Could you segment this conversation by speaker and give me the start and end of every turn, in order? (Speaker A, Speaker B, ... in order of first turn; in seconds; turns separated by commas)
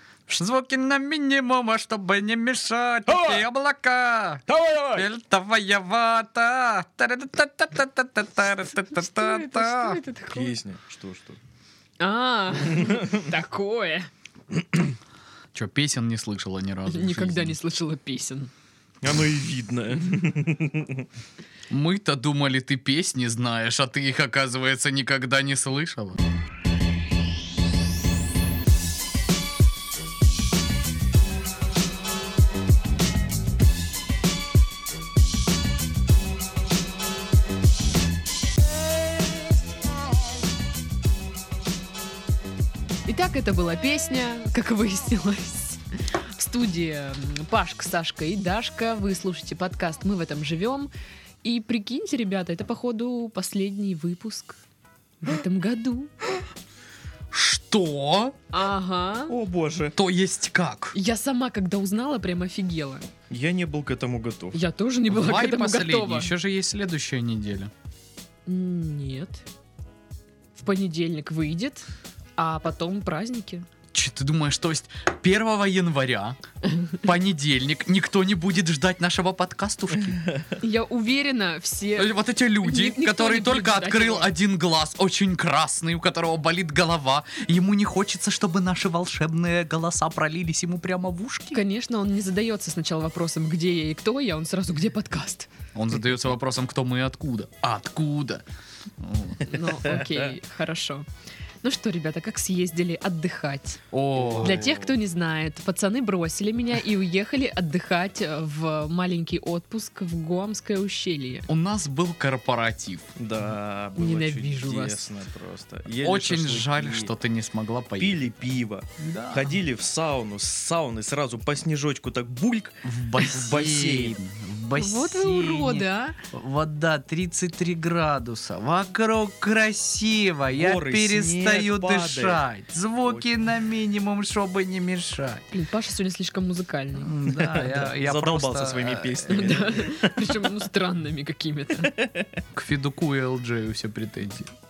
Speaker A: 0.3-10.0, Speaker B: 3.1-3.4, Speaker B: 4.5-5.1, Speaker C: 8.9-10.5, Speaker B: 10.3-11.4, Speaker C: 12.0-14.1, Speaker B: 12.8-13.2, Speaker A: 15.5-17.6, Speaker C: 16.9-18.5, Speaker B: 19.0-21.1, Speaker A: 21.7-26.2, Speaker C: 43.1-45.8, Speaker C: 46.4-50.9, Speaker C: 51.4-54.5, Speaker C: 55.2-56.1, Speaker A: 57.3-58.3, Speaker C: 58.5-59.3, Speaker B: 59.3-60.0, Speaker A: 60.0-60.9, Speaker C: 60.9-63.1, Speaker B: 63.3-64.6, Speaker C: 64.5-66.3, Speaker A: 65.1-67.7, Speaker C: 68.5-69.4, Speaker C: 70.5-73.7, Speaker A: 73.9-76.4, Speaker A: 76.9-80.2, Speaker C: 80.6-84.3, Speaker A: 82.0-91.6, Speaker C: 91.5-95.5, Speaker A: 95.7-98.4, Speaker A: 99.0-99.5, Speaker C: 99.5-101.1, Speaker C: 101.6-103.8, Speaker A: 103.9-104.7, Speaker B: 104.2-104.9, Speaker C: 104.4-111.5, Speaker A: 111.5-113.1, Speaker B: 113.2-117.1, Speaker C: 114.0-115.0, Speaker A: 116.0-119.5, Speaker B: 118.0-124.2, Speaker A: 122.8-135.4, Speaker C: 124.8-126.2, Speaker B: 130.5-132.4, Speaker B: 133.0-133.3, Speaker C: 135.5-137.1, Speaker A: 137.0-139.5, Speaker B: 137.3-140.4, Speaker C: 139.3-141.9, Speaker B: 141.9-142.3, Speaker A: 142.5-144.5